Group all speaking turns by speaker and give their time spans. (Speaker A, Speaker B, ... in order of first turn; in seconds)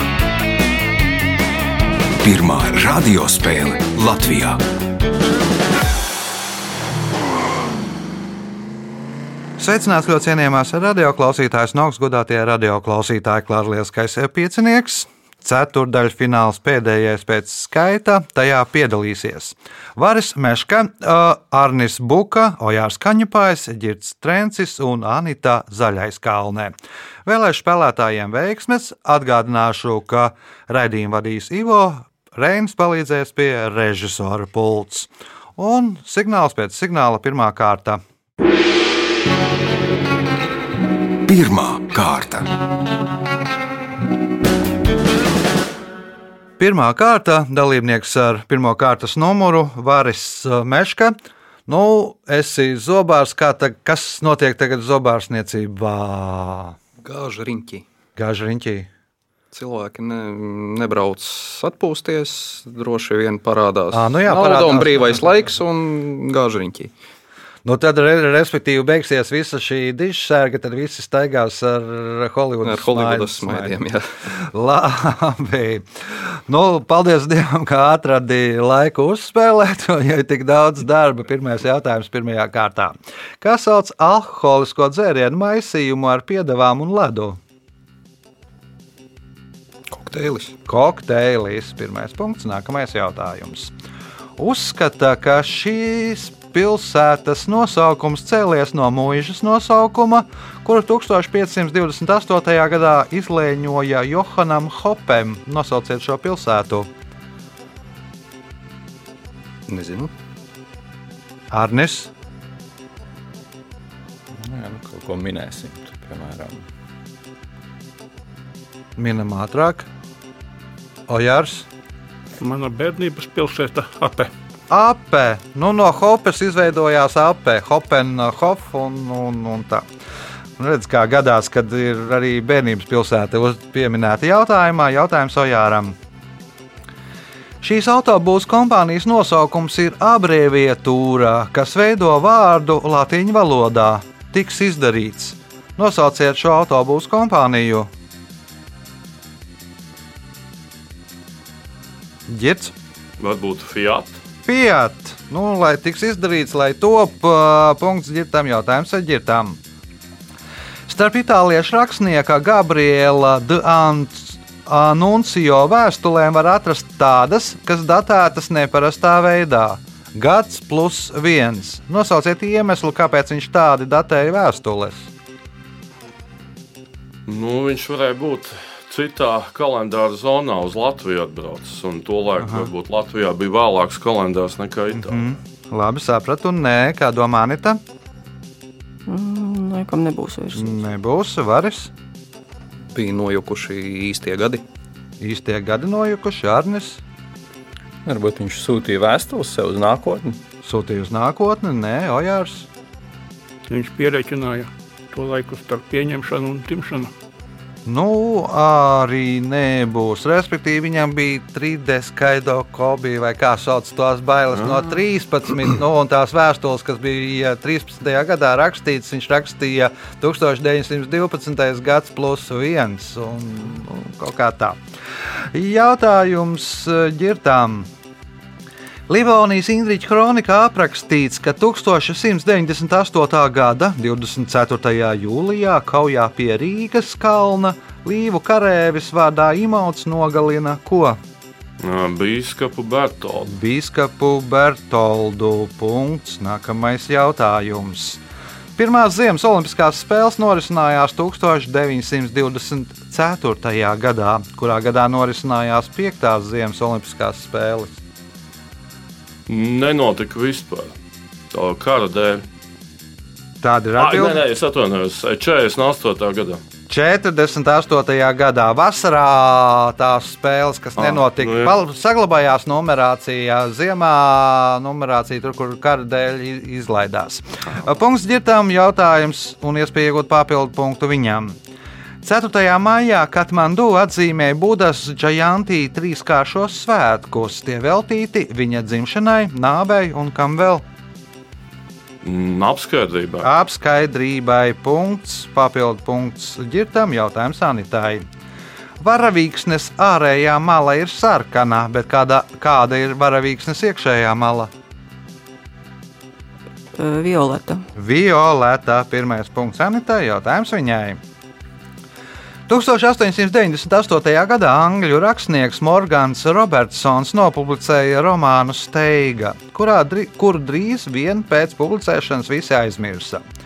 Speaker A: 2.2-4.6, 41.3-42.5
Speaker B: 9.6-26.7, 27.2-38.0, 46.6-51.1, 51.7-56.8, 58.1-58.9, 63.9-65.3, 67.6-73.8, 74.4-75.8, 76.5-87.4, 90.7-93.7, 94.4-106.9, 111.5-112.1, 119.0-119.9, 121.1-121.7, 124.7-129.9, 130.6-135.9, 137.6-147.9, 152.3-152.7, 154.4-159.6, 160.9-175.1, 182.4-182.7, 184.9-187.8, 190.5-191.9, 195.2-197.0, 200.6-202.7, 207.8-224.8, 225.3-227.9, 229.1-241.2, 243.5-248.2, 248.8-258.0, 263.6-264.4, 266.9-281.6, 282.2-290.8, 293.4-298.2, 299.0-304.7, 307.9-311.2, 312.7-323.4
Speaker C: 57.0-57.9, 59.5-66.9, 72.6-74.0, 89.9-90.5, 109.7-110.1, 192.9-194.6
Speaker D: 114.4-116.7, 198.0-200.4
Speaker E: 122.4-124.3, 203.7-207.1
Speaker F: 153.2-154.2, 177.3-185.2, 241.8-243.5, 259.5-260.9, 261.5-262.4, 264.0-266.6, 271.0-271.7, 292.2-293.5
Speaker G: 189.1-190.8, 306.9-307.9